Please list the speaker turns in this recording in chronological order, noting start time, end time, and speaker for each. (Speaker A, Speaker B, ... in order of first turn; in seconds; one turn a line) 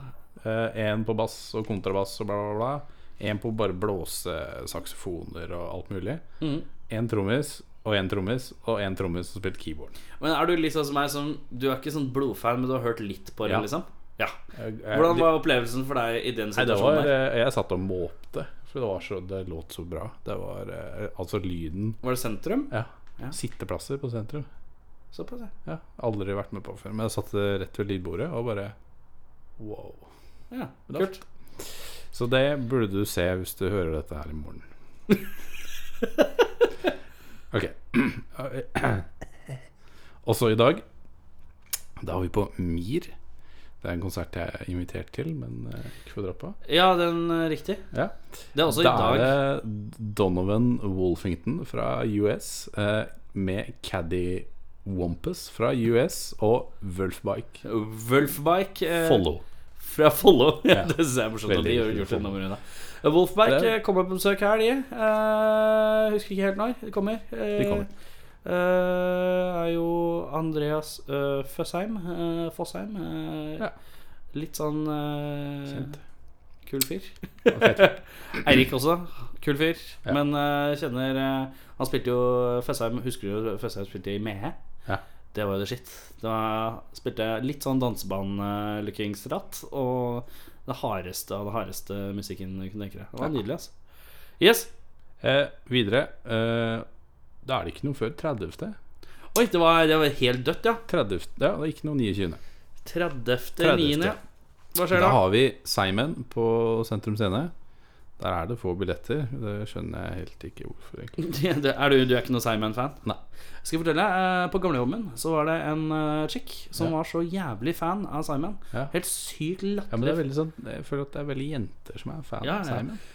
Speaker A: 0.4-6.2
Speaker B: 6.4-6.7
Speaker A: 6.9-10.0
Speaker B: 10.2-14.3
Speaker A: 14.5-15.4
Speaker B: 14.9-17.2
Speaker A: 16.5-22.0
Speaker B: 22.0-23.3
Speaker A: 22.7-24.5
Speaker B: 25.1-25.5
Speaker A: 25.6-28.7
Speaker A: 29.6-30.1
Speaker B: 30.5-31.2
Speaker A: 32.1-34.7
Speaker A: 37.5-39.1
Speaker A: 40.2-40.8
Speaker A: 42.0-43.1
Speaker A: 43.8-46.6
Speaker B: 46.6-47.8
Speaker A: 47.9-57.6
Speaker B: 48.5-49.4
Speaker B: 57.6-59.2
Speaker A: 59.0-59.4
Speaker B: 59.8-67.9
Speaker A: 60.7-62.3
Speaker A: 63.4-63.7
Speaker A: 67.6-67.9
Speaker B: 68.4-73.7
Speaker B: 74.3-75.9
Speaker A: 75.7-76.0
Speaker B: 76.7-84.5
Speaker A: 77.5-78.5
Speaker B: 85.3-93.7
Speaker B: 94.4-94.7
Speaker A: 95.2-96.8
Speaker A: 97.4-98.8
Speaker B: 99.3-100.8
Speaker A: 100.9-102.4
Speaker B: 102.8-104.2
Speaker A: 103.6-104.2
Speaker B: 104.7-105.2
Speaker A: 104.9-107.5
Speaker A: 108.2-111.2
Speaker B: 111.2-113.0
Speaker B: 113.6-120.2
Speaker A: 119.9-123.0
Speaker B: 122.4-122.8